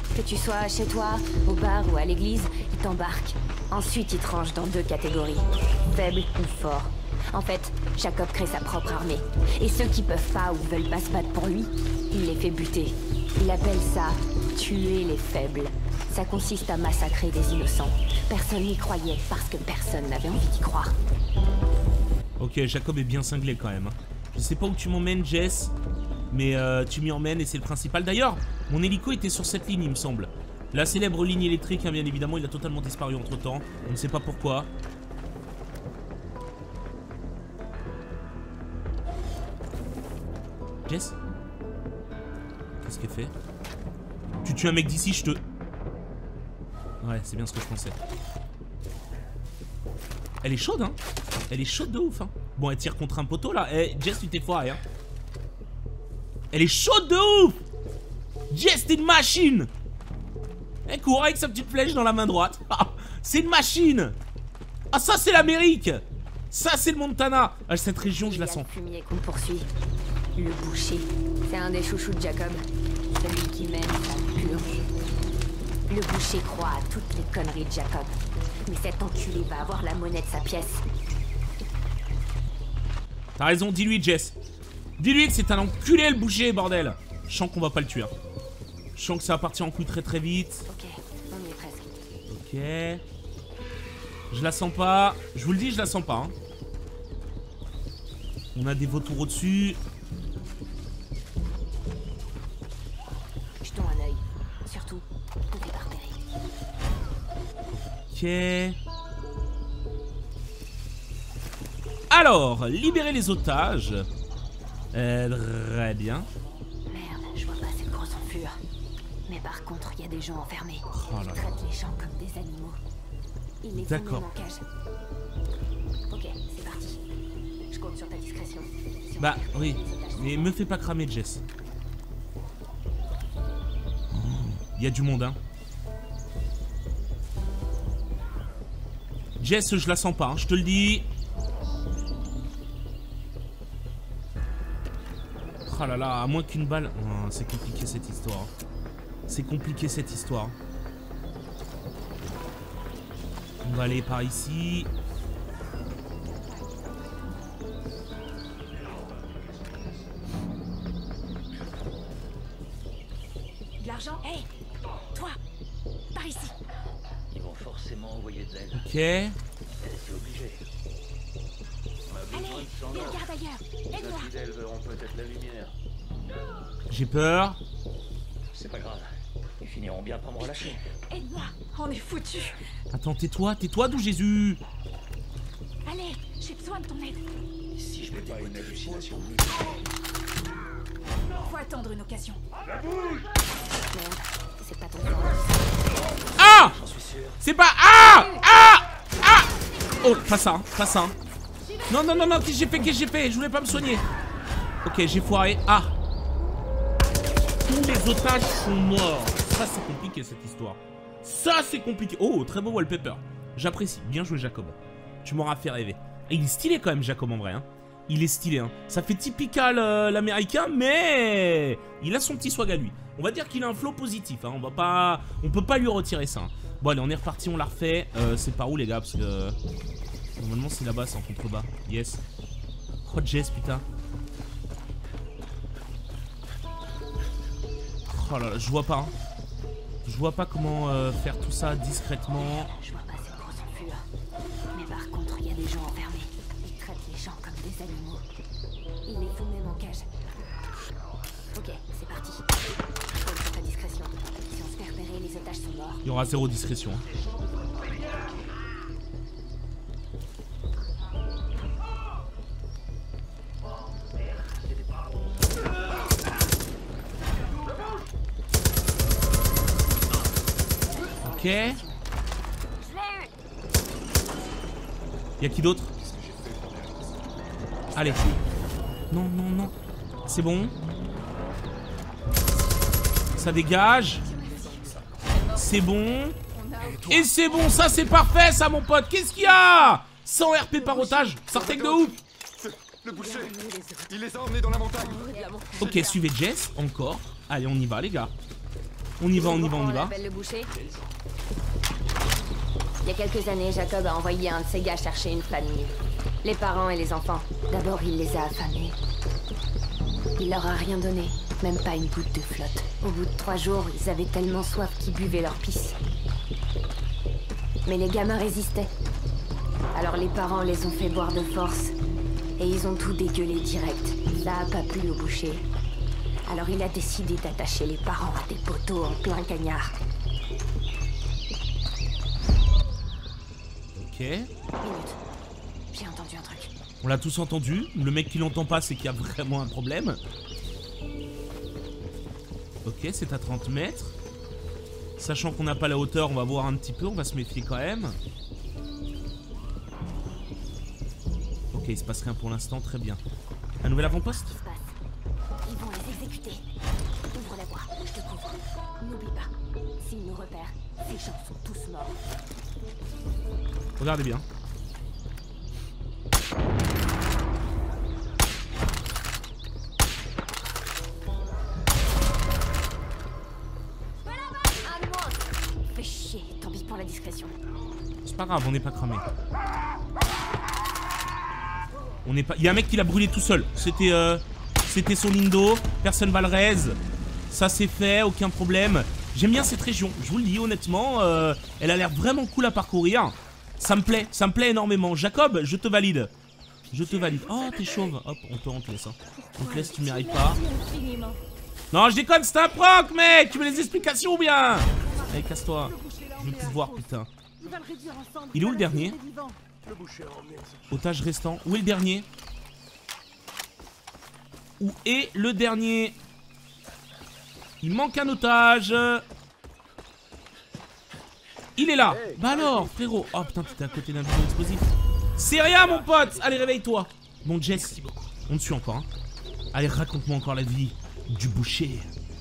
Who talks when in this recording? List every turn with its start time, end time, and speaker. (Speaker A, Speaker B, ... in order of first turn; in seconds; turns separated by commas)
Speaker A: 0.1-20.9, Speaker B: 22.4-25.7, Speaker B: 26.3-34.7, Speaker B: 40.9-41.2, Speaker B: 42.8-43.3, Speaker B: 44.4-45.4, Speaker B: 47.0-48.0, Speaker B: 50.4-51.0, Speaker B: 51.5-54.8, Speaker B: 56.5-57.6, Speaker B: 58.5-59.7, Speaker B: 60.9-64.2, Speaker B: 64.9-68.7, Speaker A: 68.2-69.7, Speaker A: 70.4-72.6, Speaker A: 73.2-74.8, Speaker A: 75.9-80.8, Speaker B: 83.4-84.3, Speaker B: 85.0-88.1, Speaker B: 89.0-90.7, Speaker A: 90.7-91.9, Speaker B: 92.3-93.0, Speaker B: 94.3-96.3, Speaker B: 98.5-99.8, Speaker A: 103.6-106.2, Speaker B: 107.7-108.8, Speaker B: 112.1-114.1, Speaker B: 114.9-116.3, Speaker A: 116.9-118.6, Speaker A: 119.3-122.8, Speaker B: 120.9-121.4, Speaker A: 123.6-124.6, Speaker B: 123.8-124.3, Speaker A: 126.1-127.0, Speaker A: 127.7-130.6, Speaker B: 129.2-131.4, Speaker B: 134.1-135.4, Speaker B: 139.4-141.1, Speaker B: 145.7-148.5, Speaker B: 149.3-150.6, Speaker B: 153.6-154.9, Speaker C: 158.7-160.0, Speaker D: 163.8-164.2, Speaker A: 164.1-164.5, Speaker A: 166.1-166.5, Speaker C: 167.3-168.9, Speaker B: 168.7-169.4, Speaker C: 169.8-170.6, Speaker C: 172.1-173.3, Speaker A: 172.3-174.0, Speaker D: 173.9-174.3, Speaker C: 173.9-175.7, Speaker B: 176.9-177.6, Speaker C: 178.5-179.1, Speaker C: 179.6-180.8, Speaker D: 181.2-182.6, Speaker A: 181.2-181.5, Speaker B: 182.9-184.6, Speaker D: 185.9-187.2, Speaker C: 187.7-189.8, Speaker E: 188.3-189.0, Speaker D: 191.4-192.4, Speaker A: 193.9-195.7, Speaker B: 196.4-196.8, Speaker C: 196.4-197.4, Speaker B: 197.4-201.2, Speaker A: 198.0-198.4, Speaker D: 201.9-202.3, Speaker B: 201.9-204.1, Speaker B: 204.8-205.9, Speaker B: 207.7-229.6, Speaker B: 230.4-232.2, Speaker B: 233.1-233.9, Speaker B: 238.1-239.1, Speaker B: 240.0-242.7, Speaker A: 242.3-244.1, Speaker A: 244.7-248.2, Speaker A: 249.1-250.1, Speaker A: 251.5-252.5, Speaker A: 253.1-256.0, Speaker B: 256.1-257.0, Speaker A: 270.9-272.0, Speaker B: 271.2-271.8, Speaker A: 272.9-273.2, Speaker B: 275.4-275.9, Speaker E: 276.0-277.3, Speaker B: 277.9-278.4, Speaker B: 279.1-279.8, Speaker B: 280.3-280.8, Speaker B: 283.4-284.3, Speaker D: 284.2-285.6, Speaker B: 285.5-286.4, Speaker D: 286.6-287.3, Speaker B: 287.0-292.2, Speaker D: 291.2-291.5, Speaker E: 291.5-295.3, Speaker A: 293.1-294.2, Speaker A: 294.9-296.2, Speaker B: 295.8-298.3, Speaker E: 295.8-296.1, Speaker B: 299.2-300.1, Speaker A: 299.3-300.7, Speaker A: 303.0-309.0, Speaker A: 310.4-316.0, Speaker A: 317.9-318.9, Speaker A: 319.9-322.0, Speaker A: 322.6-325.7, Speaker A: 326.5-329.9, Speaker B: 333.9-334.5, Speaker A: 334.8-335.2, Speaker A: 335.9-336.7, Speaker B: 337.0-340.2, Speaker B: 342.9-344.1, Speaker B: 345.2-348.2, Speaker B: 351.7-353.2, Speaker B: 353.8-354.6, Speaker A: 354.4-355.0, Speaker A: 355.7-356.6, Speaker A: 357.3-362.2, Speaker B: 364.0-364.4, Speaker A: 374.3-375.4, Speaker A: 375.9-377.6, Speaker B: 378.2-379.3, Speaker B: 382.2-387.0, Speaker B: 387.5-396.3, Speaker B: 396.9-400.6, Speaker D: 399.3-401.4, Speaker B: 401.9-407.3, Speaker D: 405.8-407.1, Speaker D: 407.6-409.6, Speaker B: 408.5-409.2, Speaker C: 409.8-410.9, Speaker B: 410.9-412.3, Speaker B: 414.8-416.2, Speaker B: 417.8-419.2, Speaker B: 421.8-429.1, Speaker C: 425.8-426.6, Speaker B: 429.7-432.1